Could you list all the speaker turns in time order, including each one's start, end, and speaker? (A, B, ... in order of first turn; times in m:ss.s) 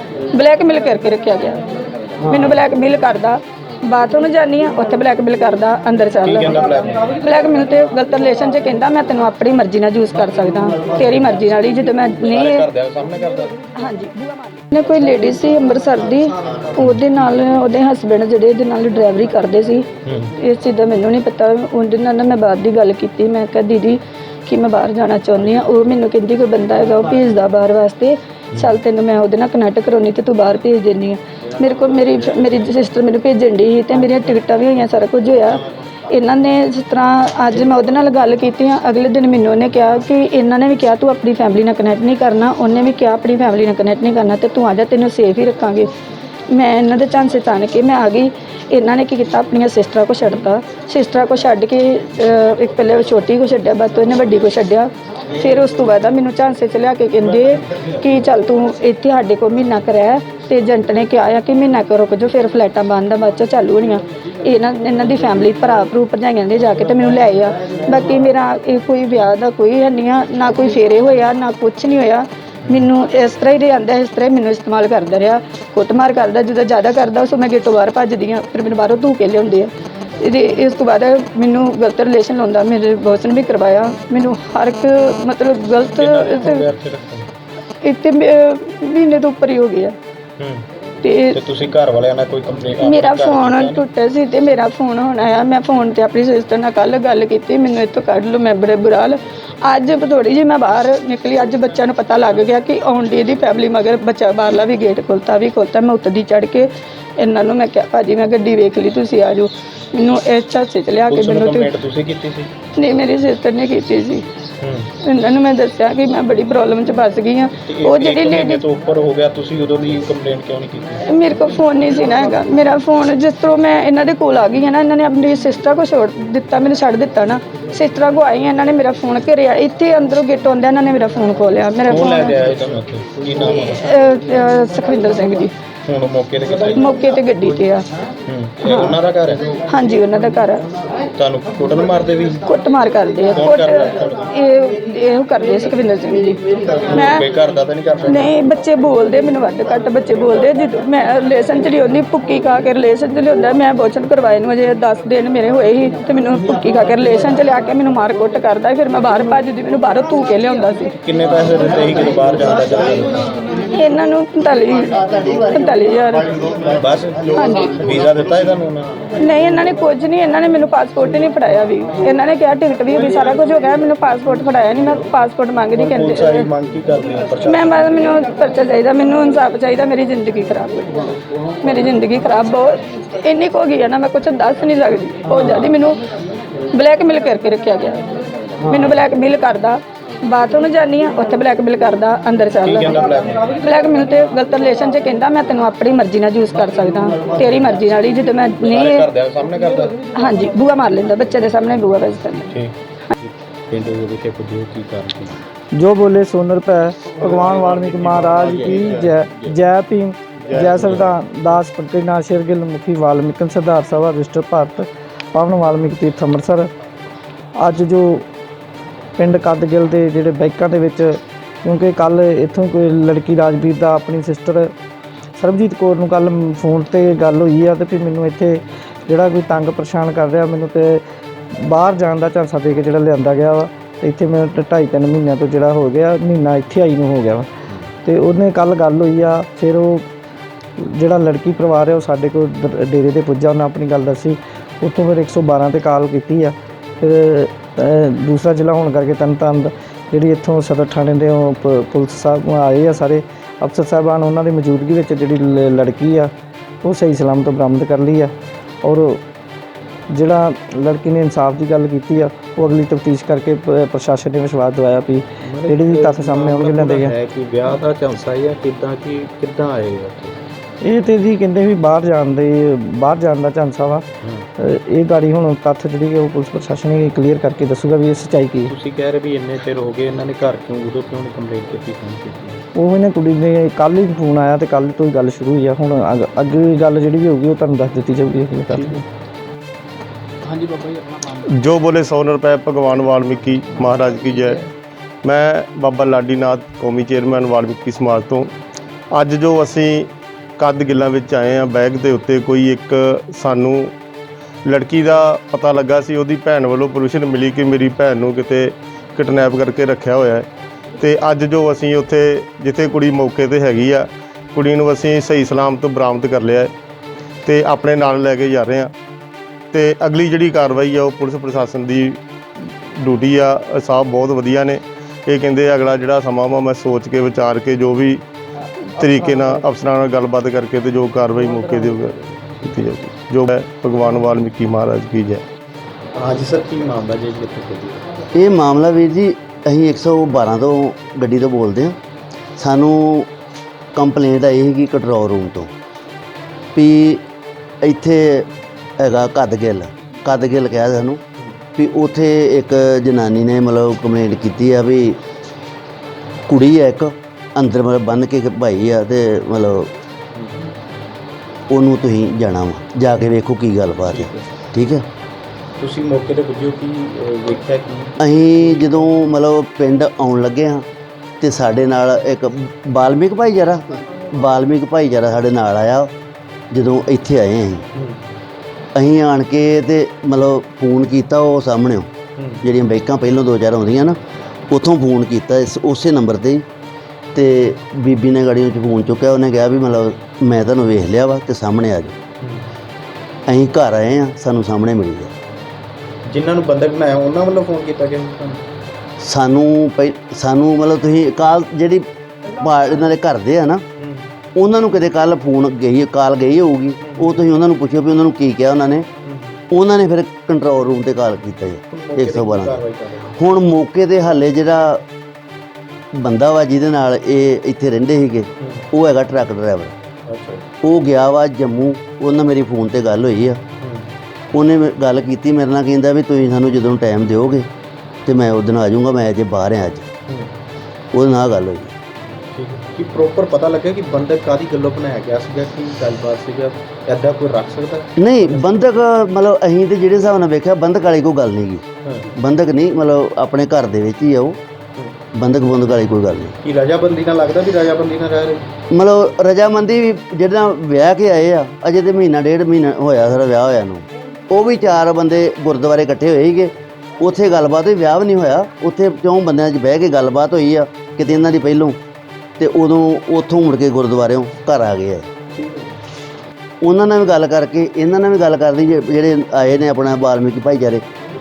0:00.3-0:01.6 A
0:02.2-0:12.6 A
0:06.2-0:07.0 B
0:12.3-0:13.6 B
0:13.8-0:45.9 A
0:20.0-0:20.3 B
0:46.5-1:26.6 A
1:25.9-1:27.3 B
1:27.8-1:29.9 A
1:30.4-1:30.6 B
1:31.0-1:31.4 A
1:31.3-1:33.8 B
1:32.8-1:51.7 A
1:51.1-1:52.5 B
1:52.7-1:54.3 A
1:54.6-1:54.9 B
1:55.0-1:58.6 A
1:57.6-2:01.0 B
2:01.0-2:12.3 A
2:11.9-2:13.8 B
2:13.5-2:15.5 A
2:15.9-2:16.9 B
2:16.7-2:17.8 A
2:18.2-2:19.5 B
2:18.6-2:18.9 A
2:19.7-2:20.6 A
2:21.1-2:22.4 B
2:22.4-2:27.2 A
2:23.3-2:24.2 B
2:26.9-2:28.3 B
2:28.1-2:40.9 A
2:41.0-2:43.2 B
2:43.6-2:46.4 A
2:46.7-2:48.9 B
2:47.3-2:47.8 A
2:49.2-2:56.4 A
2:55.7-2:57.9 B
2:57.4-3:01.0 A
3:01.6-3:06.0 A
3:06.7-3:08.1 A
3:08.6-3:13.0 A
3:12.6-3:13.4 B
3:13.6-3:19.0 A
3:18.7-3:20.0 B
3:20.1-3:22.5 A
3:22.5-3:25.4 B
3:25.7-3:36.7 C
3:27.2-3:29.5 B
3:30.5-3:31.1 B
3:37.6-3:38.3 C
3:39.2-3:44.7 C
3:45.4-3:57.5 C
3:58.0-4:00.1 C
4:00.8-4:16.3 C
4:16.8-4:19.2 C
4:20.1-4:27.1 C
4:25.4-4:30.3 B
4:30.8-4:34.0 C
4:34.6-4:38.7 C
4:38.7-4:42.6 B
4:42.7-4:49.0 C
4:50.4-4:51.2 B
4:51.4-4:54.6 D
4:55.2-4:58.5 D
4:59.1-5:03.9 D
5:04.6-5:10.5 D
5:11.0-5:16.7 D
5:17.4-5:18.9 D
5:19.7-5:22.2 D
5:23.0-5:28.2 D
5:29.0-5:35.4 D
5:36.1-5:38.0 B
5:38.3-5:42.0 E
5:42.6-5:43.3 E
5:43.9-5:45.7 E
5:46.7-5:47.2 E
5:47.8-5:48.5 E
5:49.0-5:51.2 E
5:51.8-5:55.2 E
5:56.5-5:59.9 E
6:00.3-6:00.7 B
6:01.7-6:05.0 E
6:04.0-6:04.5 B
6:05.8-6:09.3 B
6:08.2-6:10.8 E
6:11.4-6:16.1 E
6:16.7-6:17.8 E
6:18.9-6:22.1 E
6:22.4-6:22.6 B
6:22.6-6:24.2 E
6:24.7-6:26.6 E
6:27.3-6:32.2 E
6:33.5-6:35.3 E
6:36.2-6:38.6 B
6:39.2-6:43.8 E
6:44.0-6:44.3 B
6:44.6-6:49.1 E
6:47.0-6:47.5 B
6:49.2-6:49.6 B
6:49.7-6:52.8 E
6:51.9-6:53.3 B
6:53.4-6:55.0 E
6:56.2-6:59.9 E
6:58.6-6:58.8 B
7:00.3-7:00.6 B
7:00.8-7:03.6 E
7:03.8-7:04.1 B
7:04.5-7:07.7 E
7:08.2-7:10.1 E
7:11.1-7:11.9 E
7:12.5-7:18.7 B
7:18.2-7:24.6 E
7:22.0-7:22.3 B
7:25.3-7:26.6 E
7:26.6-7:28.7 B
7:28.9-7:42.0 E
7:42.6-7:45.3 E
7:45.5-7:45.9 B
7:46.8-7:51.0 E